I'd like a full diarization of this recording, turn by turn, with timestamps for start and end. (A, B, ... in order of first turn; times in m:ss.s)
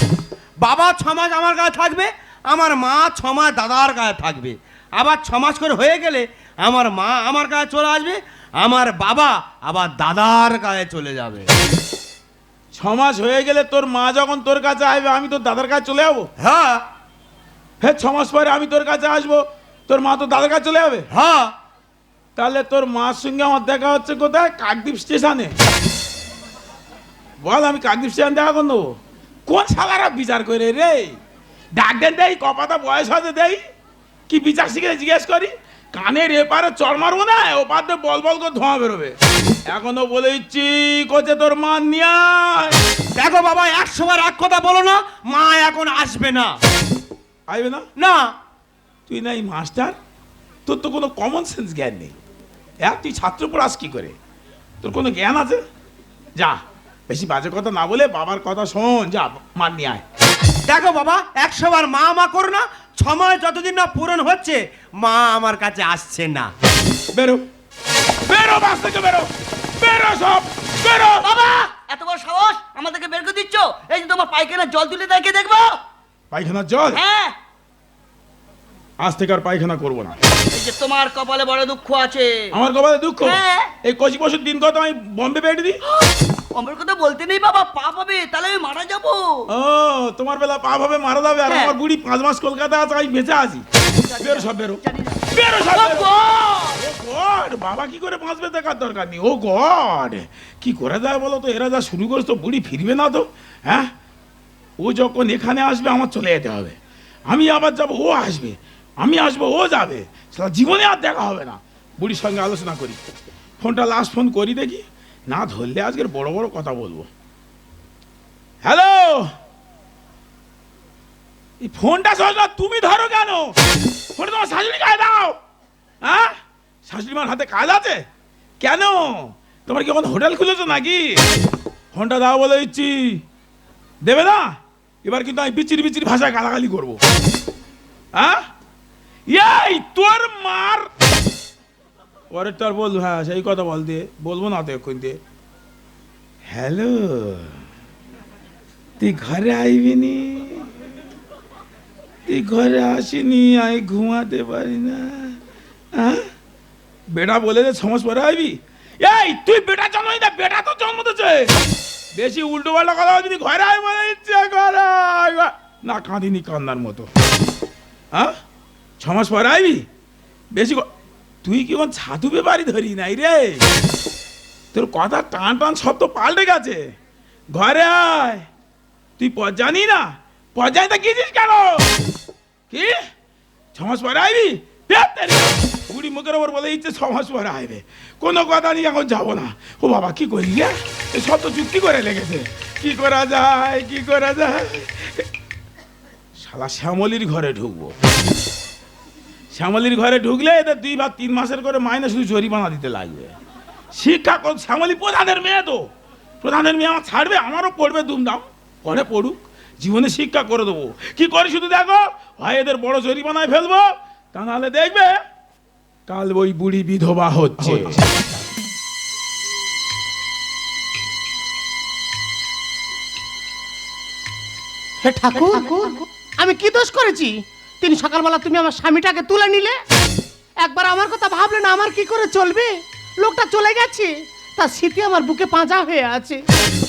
0:00.6-0:11.5 A
0:12.7-0:16.3 B
0:16.4-0:16.8 A
0:17.8-0:21.1 B
0:21.1-0:21.6 A
0:22.4-0:25.5 B
0:27.4-0:31.2 B
0:31.8-0:33.6 B
0:34.3-0:39.2 B
0:39.7-0:42.8 B
0:43.2-0:46.6 A
0:47.5-0:47.9 B
0:48.0-0:48.3 A
0:49.1-0:49.9 B
0:50.6-0:52.2 B
0:52.8-0:54.1 B
0:54.8-0:55.6 B
0:56.4-1:00.0 B
1:00.7-1:06.5 A
1:07.1-1:07.4 B
1:08.3-1:11.3 B
1:11.2-1:15.8 C
1:16.3-1:17.0 B
1:16.9-1:17.3 C
1:19.0-1:20.1 B
1:20.5-1:22.5 C
1:22.5-1:25.8 B
1:23.2-1:23.7 C
1:26.0-1:29.4 C
1:29.5-1:33.6 B
1:31.5-1:31.7 C
1:34.2-1:36.1 B
1:35.7-1:36.8 C
1:36.8-1:43.9 B
1:44.8-1:46.8 B
1:47.3-1:53.0 B
1:53.6-1:57.1 B
1:58.6-1:59.3 B
2:01.6-2:03.6 B
2:04.2-2:05.4 B
2:06.0-2:08.0 B
2:08.6-2:11.2 B
2:11.9-2:13.2 B
2:14.0-2:17.0 B
2:18.1-2:18.4 B
2:19.3-2:20.9 B
2:22.3-2:25.2 B
2:26.5-2:27.5 B
2:29.0-2:30.7 B
2:32.3-2:35.4 B
2:35.9-2:36.3 B
2:37.1-2:41.5 B
2:42.1-2:47.1 B
2:49.0-2:49.9 B
2:50.5-2:50.9 B
2:51.4-2:53.6 B
2:54.7-2:56.9 B
2:57.5-2:58.4 B
2:59.2-3:01.9 B
3:02.7-3:03.0 B
3:03.8-3:15.2 B
3:16.4-3:17.9 B
3:19.5-3:23.3 B
3:23.9-3:25.9 B
3:26.4-3:35.2 B
3:36.1-3:38.0 B
3:45.0-3:49.8 D
3:50.6-3:56.4 D